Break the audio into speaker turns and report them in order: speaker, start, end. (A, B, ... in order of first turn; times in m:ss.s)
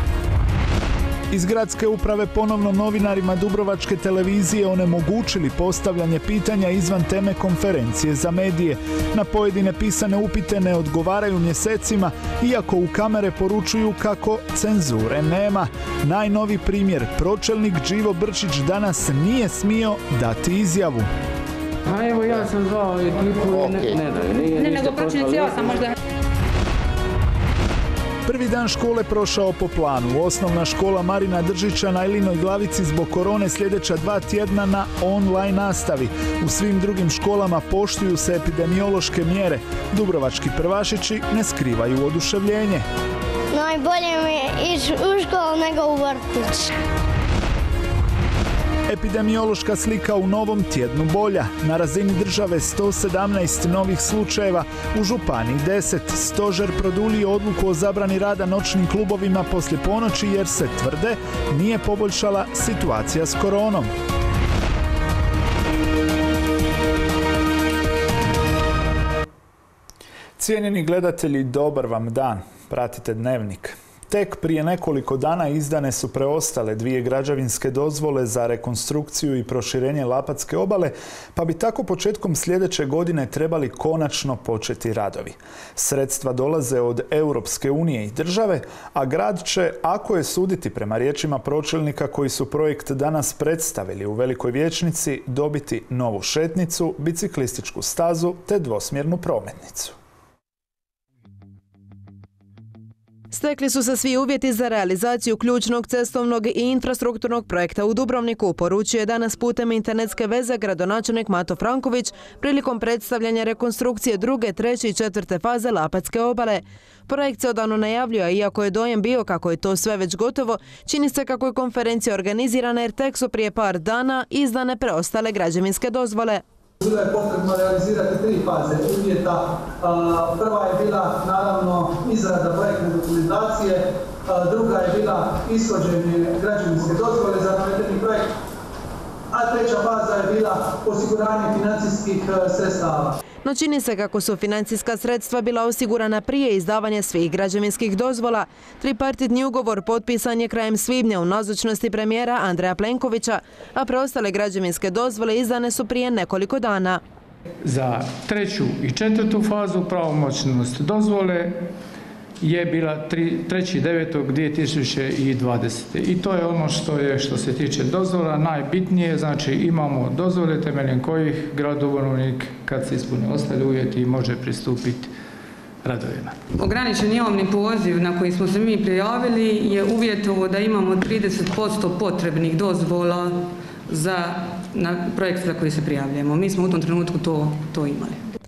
0:01.3-0:21.1 A
0:21.9-0:25.6 B
0:24.6-0:25.9 C
0:28.3-0:42.9 A
0:43.5-0:46.7 D
0:48.9-1:03.9 A
1:10.4-1:40.0 A
1:43.3-2:06.4 E
2:06.8-2:18.3 F
2:19.3-2:23.2 F
2:23.4-2:37.0 E
2:37.6-2:41.7 G
2:42.4-2:55.1 G
2:55.8-2:56.4 G
2:56.6-3:08.2 C